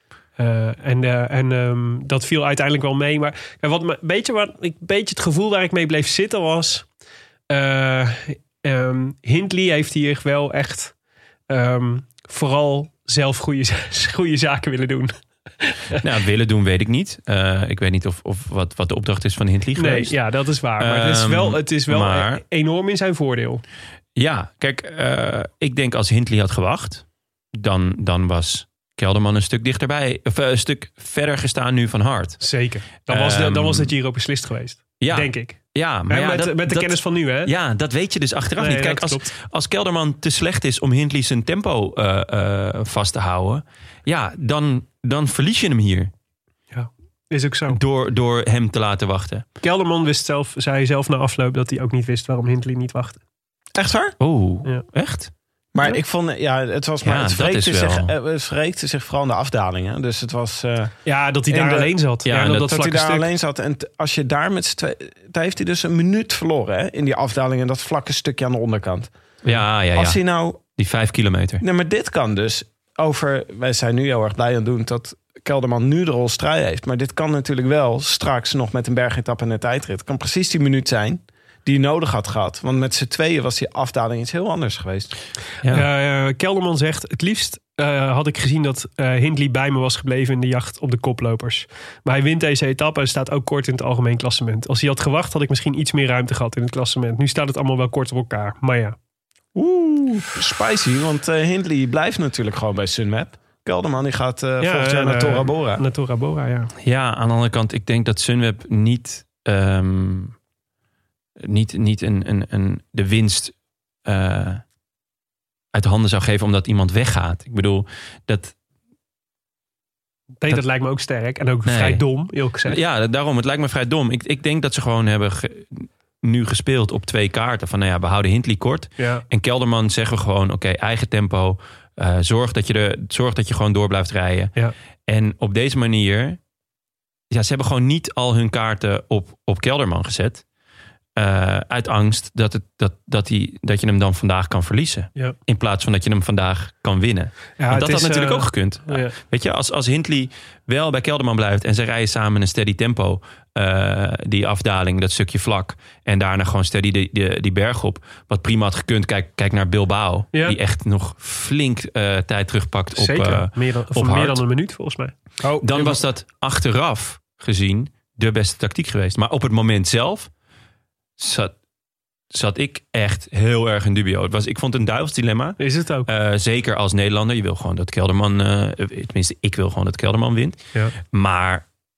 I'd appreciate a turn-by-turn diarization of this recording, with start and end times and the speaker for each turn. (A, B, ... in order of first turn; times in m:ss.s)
0:00.4-0:06.8 A
0:07.5-0:10.9 A
0:11.5-0:16.0 A
0:16.0-0:20.2 B
0:19.8-0:23.6 A
0:20.8-0:22.4 B
0:24.2-0:32.4 B
0:32.4-0:35.6 A
0:33.0-0:33.9 B
0:35.0-0:46.1 B
0:36.1-0:37.5 A
0:38.6-0:39.3 A
0:46.7-0:47.8 A
0:47.7-0:49.4 B
0:49.6-0:53.2 A
0:53.8-0:54.2 C
0:54.2-0:55.3 B
0:55.7-1:01.9 C
0:57.0-0:58.1 B
1:01.0-1:03.3 A
1:02.2-1:02.7 B
1:02.5-1:09.1 C
1:09.4-1:10.2 B
1:09.9-1:10.6 C
1:10.7-1:11.6 B
1:11.6-1:25.1 C
1:25.7-1:39.0 A
1:39.5-1:45.8 C
1:44.6-1:46.7 A
1:46.8-1:50.3 B
1:51.4-1:53.5 B
1:54.0-1:54.6 B
1:55.7-1:58.5 B
2:00.4-2:02.8 A
2:01.6-2:02.0 B
2:02.6-2:14.5 B
2:09.0-2:09.2 A
2:15.1-2:16.4 B
2:17.3-2:20.4 B
2:21.2-2:44.4 B
2:27.6-2:29.1 A
2:42.9-2:45.1 A
2:45.4-2:46.0 C
2:45.6-2:50.3 B
2:51.2-2:51.5 B
2:52.3-3:01.6 B
2:55.6-2:56.1 A